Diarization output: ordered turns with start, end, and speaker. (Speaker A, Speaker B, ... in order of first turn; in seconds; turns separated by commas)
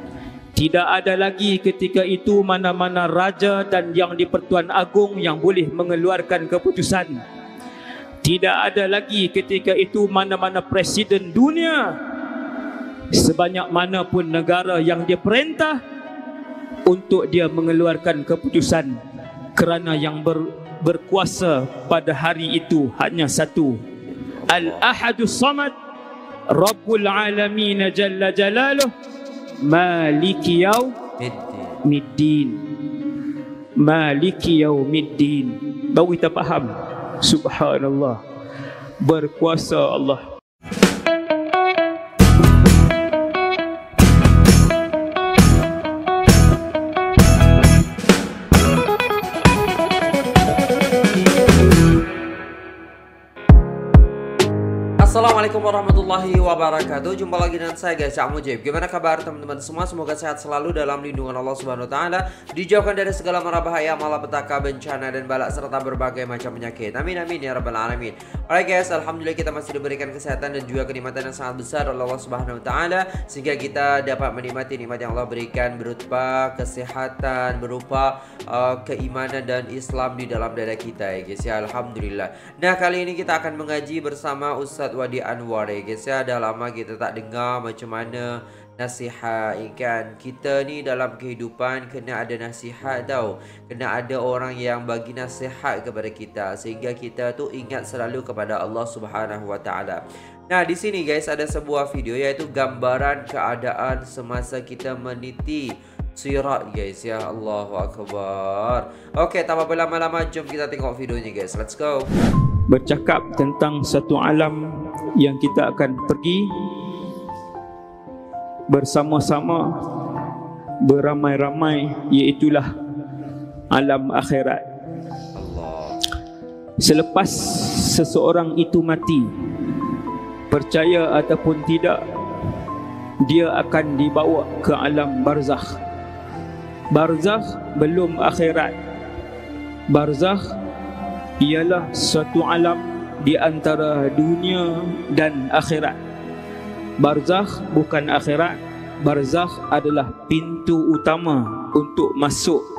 Speaker A: 0.5-7.2, Speaker A: 8.2-11.9, Speaker A: 13.1-15.8, Speaker A: 16.9-18.9, Speaker A: 19.6-23.8, Speaker B: 24.3-24.9, Speaker A: 24.5-25.7, Speaker A: 26.5-28.9, Speaker A: 29.6-30.9, Speaker B: 31.2-31.8, Speaker A: 31.8-32.6, Speaker A: 33.8-38.2, Speaker A: 39.0-40.2, Speaker B: 55.0-112.1, Speaker A: 112.7-116.5, Speaker A: 118.7-119.7, Speaker A: 120.8-122.7, Speaker A: 123.7-124.6, Speaker B: 125.3-126.0, Speaker A: 126.8-129.3, Speaker A: 130.5-132.0, Speaker A: 133.2-135.7, Speaker A: 136.9-138.7, Speaker A: 139.9-140.4, Speaker A: 141.4-146.0, Speaker A: 147.0-152.6